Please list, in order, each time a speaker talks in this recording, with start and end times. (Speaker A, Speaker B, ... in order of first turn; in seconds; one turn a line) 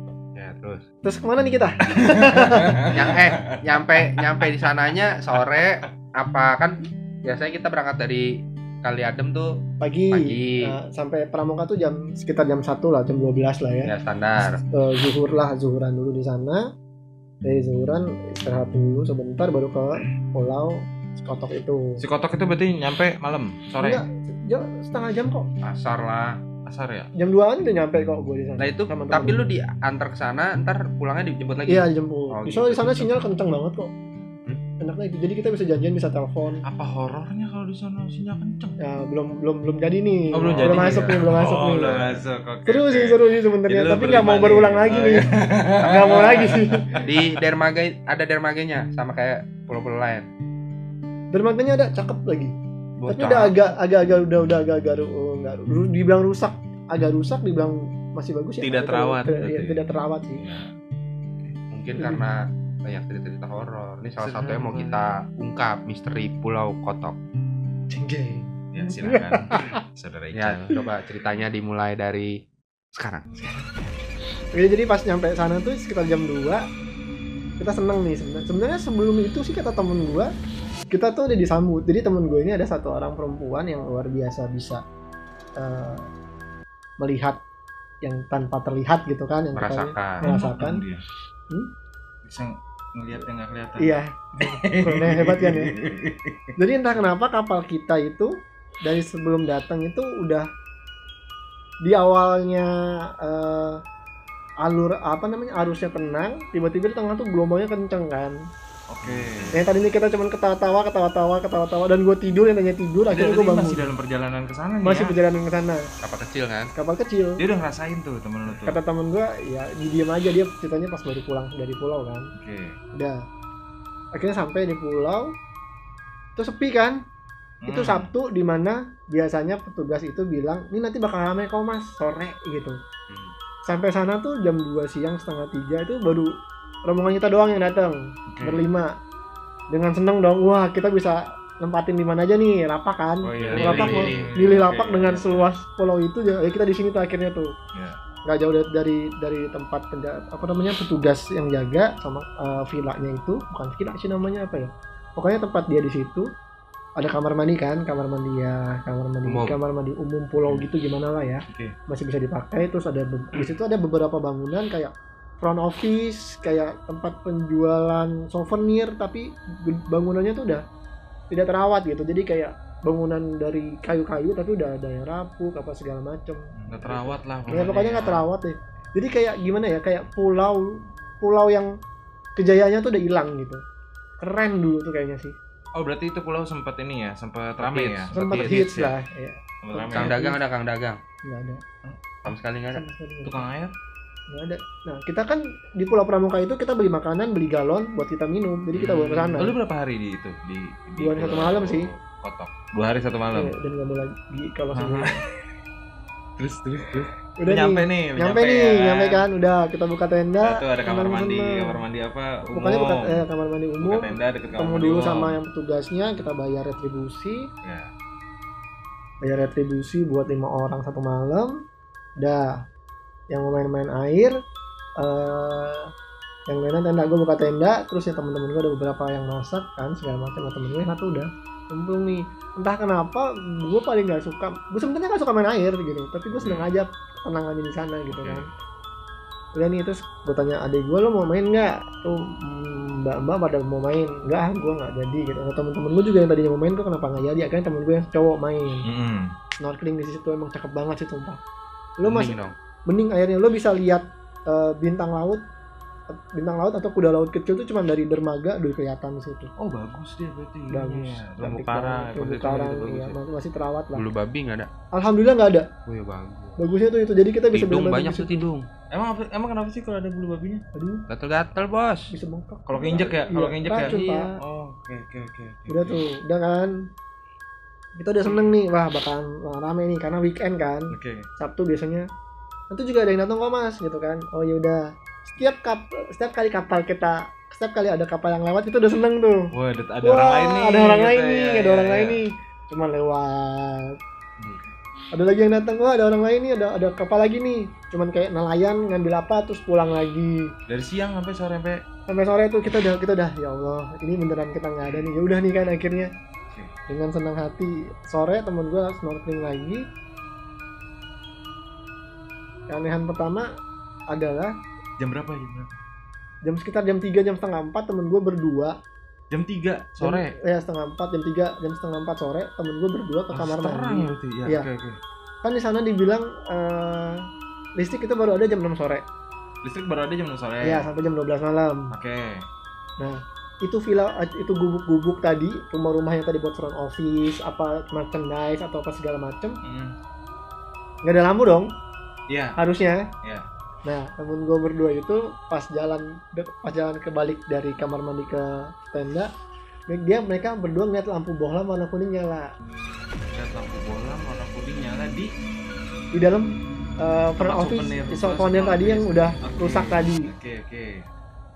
Speaker A: 0.3-0.8
Speaker B: 1.0-3.0
Speaker C: 2.7-3.2
Speaker A: 2.9-8.2
Speaker C: 4.0-4.5
Speaker A: 8.8-9.5
Speaker B: 9.8-13.9
Speaker A: 10.1-10.5
Speaker A: 13.8-14.6
Speaker B: 14.6-16.6
Speaker B: 17.4-22.0
Speaker C: 22.0-24.0
Speaker B: 23.8-25.5
Speaker A: 25.6-26.3
Speaker C: 26.6-27.1
Speaker B: 27.2-29.5
Speaker A: 28.6-33.2
Speaker B: 31.7-33.9
Speaker B: 34.8-36.6
Speaker C: 36.6-38.8
Speaker B: 38.8-42.0
Speaker C: 40.3-46.7
Speaker A: 40.5-41.3
Speaker B: 42.6-47.0
Speaker A: 47.0-50.2
Speaker B: 51.3-52.5
Speaker C: 53.0-53.7
Speaker B: 53.1-60.4
Speaker C: 58.6-59.9
Speaker C: 60.4-60.7
Speaker A: 61.7-67.2
Speaker B: 62.0-62.2
Speaker C: 64.2-65.1
Speaker B: 67.9-69.8
Speaker C: 68.7-70.8
Speaker A: 70.3-72.3
Speaker A: 73.0-73.3
Speaker C: 73.5-73.8
Speaker B: 74.5-76.6
Speaker B: 77.6-80.3
Speaker B: 80.9-84.8
Speaker B: 85.6-86.1
Speaker B: 87.0-87.4
Speaker B: 88.0-90.8
Speaker A: 89.5-90.3
Speaker C: 90.2-91.0
Speaker C: 92.2-96.4
Speaker B: 93.8-95.7
Speaker B: 96.6-98.3
Speaker B: 98.8-100.5
Speaker B: 101.8-102.7
Speaker B: 103.2-103.8
Speaker B: 104.6-108.3
Speaker C: 108.9-109.6
Speaker A: 109.0-109.5
Speaker B: 109.5-113.9
Speaker C: 113.1-115.2
Speaker B: 114.8-115.8
Speaker A: 116.0-116.7
Speaker B: 116.8-117.4
Speaker C: 117.4-118.8
Speaker B: 118.6-122.3
Speaker C: 122.3-122.7
Speaker B: 124.2-125.3
Speaker B: 126.4-127.0
Speaker C: 127.6-128.1
Speaker B: 127.7-132.8
Speaker B: 133.7-136.3
Speaker B: 136.8-138.9
Speaker C: 138.3-138.7
Speaker B: 139.7-147.5
Speaker C: 143.2-145.5
Speaker A: 143.4-144.3
Speaker B: 148.2-156.2
Speaker B: 157.0-170.6
Speaker A: 159.2-159.5
Speaker B: 171.3-181.7
Speaker C: 176.6-178.3
Speaker B: 182.4-183.6
Speaker B: 184.2-185.3
Speaker C: 185.7-188.9
Speaker A: 187.6-188.6
Speaker B: 188.1-190.4
Speaker C: 189.6-190.2
Speaker A: 189.9-191.0
Speaker B: 191.2-191.6
Speaker C: 191.8-192.3
Speaker A: 192.2-192.8
Speaker B: 192.7-193.4
Speaker C: 193.2-193.7
Speaker B: 194.3-199.5
Speaker C: 198.7-203.5
Speaker B: 201.0-201.9
Speaker B: 203.3-205.2
Speaker C: 204.7-205.2
Speaker C: 206.4-209.2
Speaker B: 207.4-211.8
Speaker C: 210.4-213.2
Speaker B: 212.5-217.4
Speaker C: 213.8-215.4
Speaker C: 217.6-217.9
Speaker B: 219.2-221.5
Speaker B: 222.2-222.6
Speaker B: 223.3-224.3
Speaker B: 225.0-225.8
Speaker B: 226.5-238.4
Speaker C: 236.3-236.7
Speaker C: 238.1-238.4
Speaker B: 239.6-248.8
Speaker C: 248.9-249.3
Speaker B: 249.6-251.4
Speaker B: 252.0-252.3
Speaker A: 252.0-252.5
Speaker B: 252.9-255.4
Speaker B: 256.1-259.5
Speaker C: 259.6-263.2
Speaker B: 260.7-264.1
Speaker A: 263.9-264.7
Speaker B: 264.9-265.7
Speaker A: 265.9-266.6
Speaker B: 266.6-268.3
Speaker A: 267.5-268.6
Speaker C: 268.9-270.6
Speaker B: 270.7-271.0
Speaker A: 271.1-272.1
Speaker B: 272.1-274.3
Speaker C: 272.7-276.0
Speaker A: 273.7-274.4
Speaker B: 275.7-276.7
Speaker B: 278.0-282.1
Speaker C: 278.2-278.5
Speaker C: 280.9-281.2
Speaker B: 282.7-289.5
Speaker C: 289.5-292.2
Speaker B: 290.0-293.9
Speaker B: 295.1-300.5
Speaker C: 300.7-301.8
Speaker B: 302.1-306.1
Speaker C: 304.8-305.1
Speaker B: 306.9-309.8
Speaker B: 312.7-313.5
Speaker B: 314.1-314.5
Speaker C: 315.0-315.8
Speaker B: 316.4-318.7
Speaker C: 319.3-320.3
Speaker B: 320.0-324.7
Speaker C: 323.3-325.0
Speaker B: 325.4-327.2
Speaker B: 327.8-329.0
Speaker C: 329.6-330.9
Speaker B: 330.6-331.9
Speaker C: 331.9-332.2
Speaker B: 333.0-339.6
Speaker C: 339.6-339.9
Speaker B: 341.0-341.7
Speaker C: 342.3-342.5
Speaker B: 342.6-343.0
Speaker B: 343.9-349.3
Speaker B: 349.9-352.5
Speaker C: 353.3-355.3
Speaker B: 356.1-356.5
Speaker B: 357.0-360.3
Speaker C: 357.4-360.9